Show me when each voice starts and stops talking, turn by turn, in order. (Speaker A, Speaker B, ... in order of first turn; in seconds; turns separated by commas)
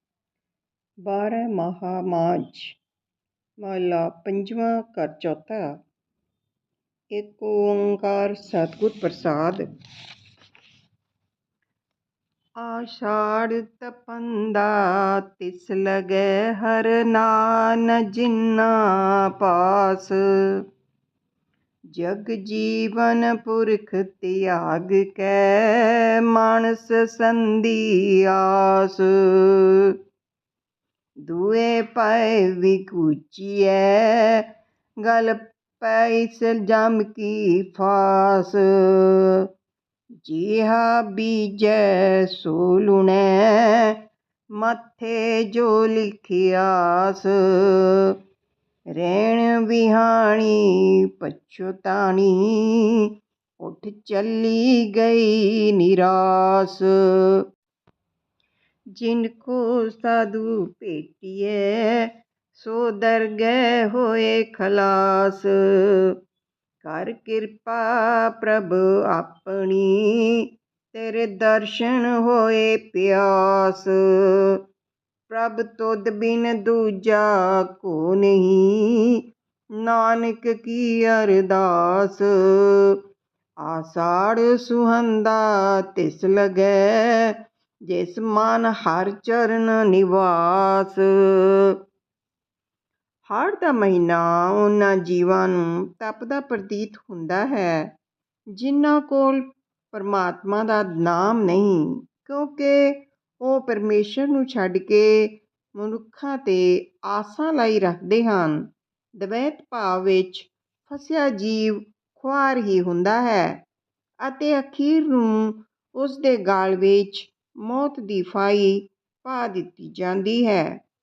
Speaker A: 1.0-2.8, Speaker A: 3.6-5.7, Speaker A: 7.1-9.7, Speaker A: 12.6-20.6, Speaker A: 21.9-30.0, Speaker A: 31.2-34.5, Speaker A: 35.0-39.5, Speaker A: 40.2-44.0, Speaker A: 44.6-48.2, Speaker A: 48.9-53.1, Speaker A: 53.6-57.5, Speaker A: 59.0-66.2, Speaker A: 66.8-74.6, Speaker A: 75.3-79.2, Speaker A: 79.8-83.0, Speaker A: 83.6-91.8, Speaker A: 93.3-97.9, Speaker A: 98.5-108.7, Speaker A: 109.2-113.6, Speaker A: 114.2-120.8